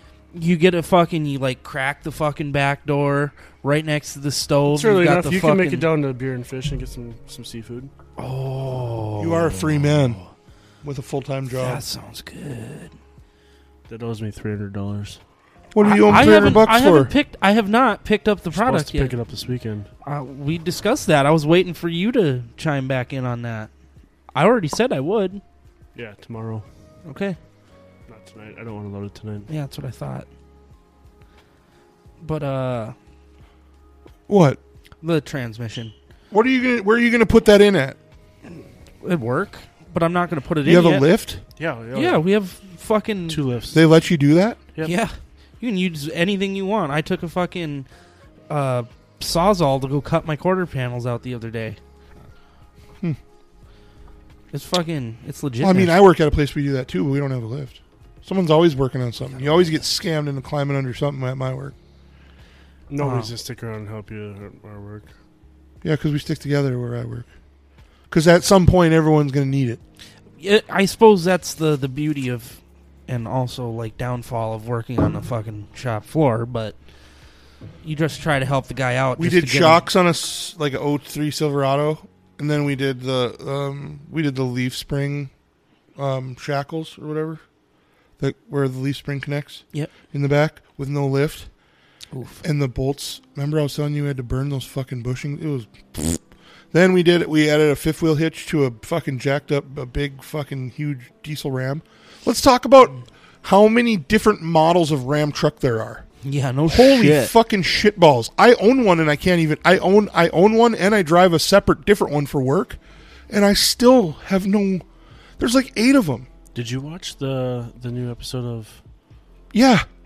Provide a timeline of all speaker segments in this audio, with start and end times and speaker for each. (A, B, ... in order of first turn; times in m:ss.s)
0:00.3-0:05.8 A
0:04.7-0:07.9 B
0:08.2-0:10.3 A
0:09.2-0:10.2 C
0:10.8-0:11.8 C
0:11.5-0:12.9 A
0:13.9-0:15.2 B
0:15.7-0:17.1 C
0:15.8-0:19.2 A
0:18.5-0:19.9 B
0:20.0-0:23.7 A
0:24.3-0:25.4 A
0:25.9-0:26.6 B
0:27.0-0:27.4 A
0:28.1-0:29.5 B
0:29.5-0:30.3 A
0:32.2-0:32.9 A
0:34.3-0:34.6 C
0:35.0-0:35.9 A
0:36.3-0:38.0 C
0:39.0-0:41.1 A
0:40.6-0:41.4 C
0:41.6-0:42.2 B
0:41.9-0:43.4 A
0:43.3-0:43.8 B
0:43.7-0:44.6 C
0:44.8-0:47.9 A
0:48.5-0:51.8 A
0:54.5-0:56.0 A
0:55.6-1:01.7 C
0:59.4-0:59.8 A
1:02.9-1:05.1 B
1:03.0-1:03.3 A
1:05.8-1:07.3 C
1:08.1-1:09.8 C
1:10.4-1:16.7 A
1:17.8-1:19.8 A
1:19.2-1:25.3 C
1:26.0-1:27.4 C
1:28.2-1:31.5 C
1:32.1-1:32.4 A
1:32.4-1:46.0 C
1:46.2-1:47.3 A
1:46.7-1:54.8 C
1:55.4-1:56.3 C
1:56.5-1:58.8 B
1:59.5-1:59.9 C